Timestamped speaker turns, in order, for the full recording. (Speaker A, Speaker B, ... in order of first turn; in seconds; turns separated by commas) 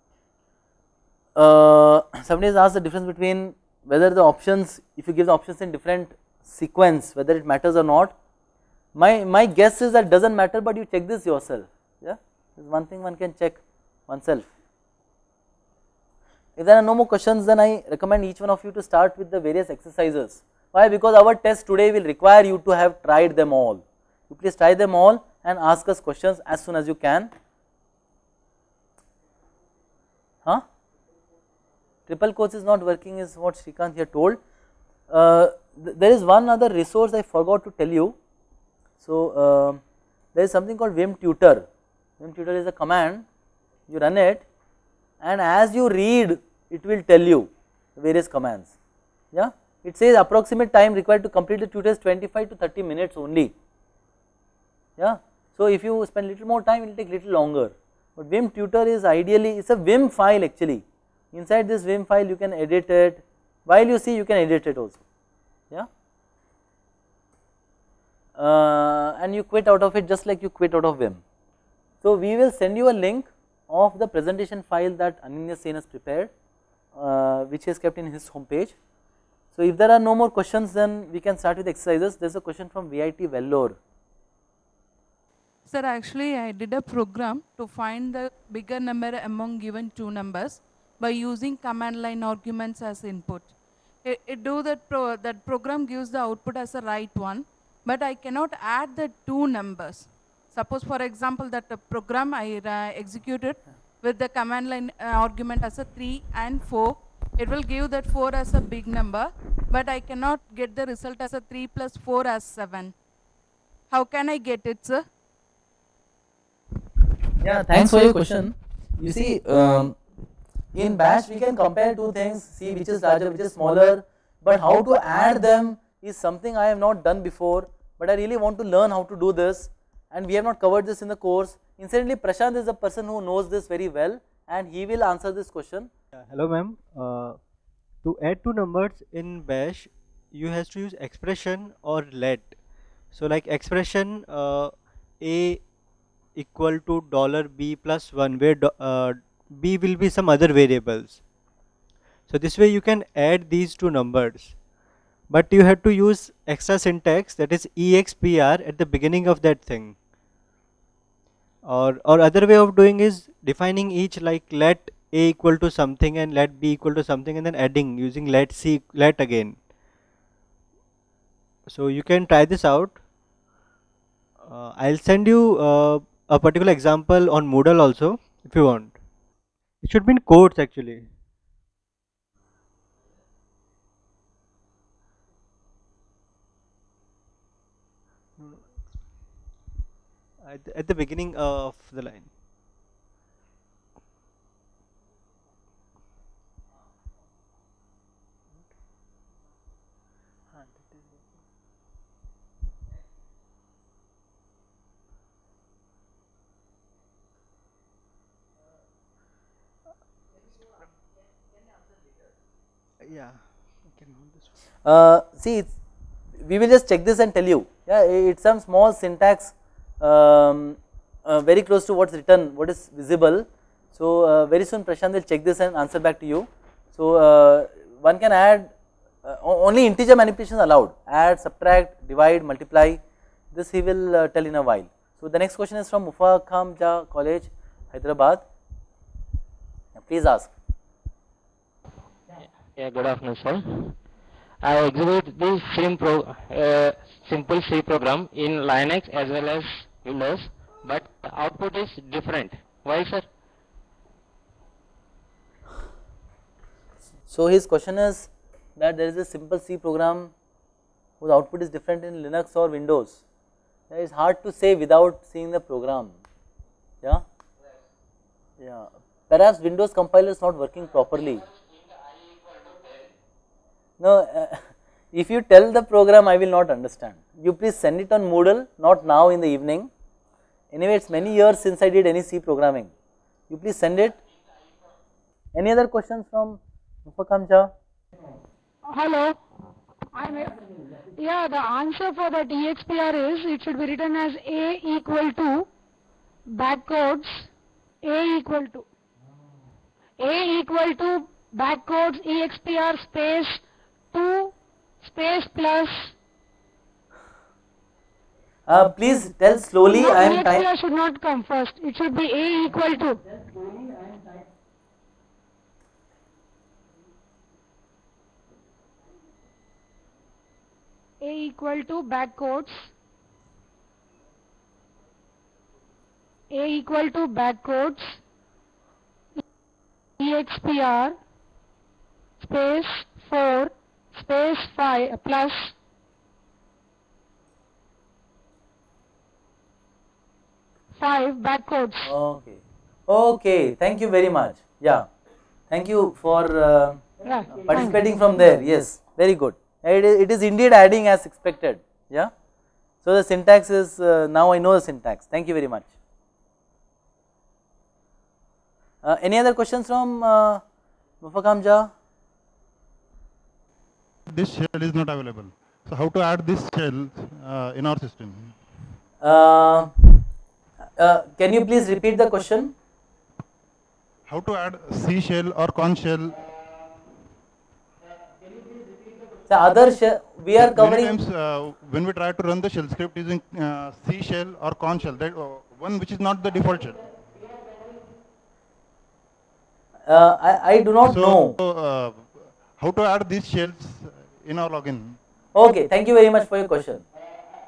Speaker A: 1.4-8.1, Speaker A: 8.9-14.5, Speaker A: 16.6-27.3, Speaker A: 32.1-34.4, Speaker A: 35.1-38.1, Speaker A: 39.0-39.8, Speaker A: 40.3-41.6, Speaker A: 42.2-43.2, Speaker A: 43.9-44.4, Speaker A: 45.2-48.7, Speaker A: 49.3-53.5, Speaker A: 55.0-65.0, Speaker A: 68.4-71.2, Speaker A: 72.0-76.3, Speaker A: 77.0-78.8, Speaker A: 79.5-83.8, Speaker B: 85.7-112.9, Speaker B: 113.9-115.0, Speaker A: 117.4-120.0, Speaker A: 120.7-135.9, Speaker C: 136.1-137.4, Speaker C: 138.0-142.5, Speaker C: 143.1-145.6, Speaker C: 146.3-151.2, Speaker C: 152.3-154.6, Speaker C: 155.3-160.0, Speaker C: 161.6-169.6, Speaker C: 171.7-173.0, Speaker C: 174.4-179.0, Speaker C: 179.8-181.1, Speaker C: 190.4-192.3, Speaker C: 213.0-213.4, Speaker C: 213.9-214.6, Speaker A: 214.8-215.7, Speaker A: 216.4-228.7, Speaker A: 229.2-233.0, Speaker A: 233.5-238.4, Speaker A: 239.9-240.5, Speaker D: 242.7-244.0, Speaker D: 244.6-253.2, Speaker A: 257.3-260.3, Speaker A: 261.2-263.2, Speaker A: 263.9-266.1, Speaker A: 268.6-271.4, Speaker A: 274.0-279.9, Speaker A: 280.7-282.9, Speaker A: 283.5-284.2, Speaker A: 285.5-287.7, Speaker E: 288.9-289.4, Speaker E: 290.1-290.6, Speaker E: 291.1-295.7, Speaker E: 296.5-297.5, Speaker E: 298.0-298.9, Speaker E: 300.2-306.1, Speaker A: 308.7-310.6, Speaker E: 309.9-313.2, Speaker E: 321.2-322.9, Speaker E: 326.5-328.2, Speaker E: 330.2-331.2, Speaker E: 332.4-335.7, Speaker E: 340.9-342.1, Speaker A: 342.0-345.1, Speaker A: 345.7-352.3, Speaker E: 347.2-348.0, Speaker A: 353.0-355.9, Speaker A: 359.0-360.6, Speaker A: 361.2-361.9, Speaker F: 364.3-368.6, Speaker A: 369.2-369.9, Speaker A: 371.0-372.7, Speaker F: 374.3-376.5, Speaker A: 379.5-381.1, Speaker F: 380.6-387.0, Speaker A: 390.1-391.5, Speaker F: 391.0-395.2, Speaker A: 395.5-397.0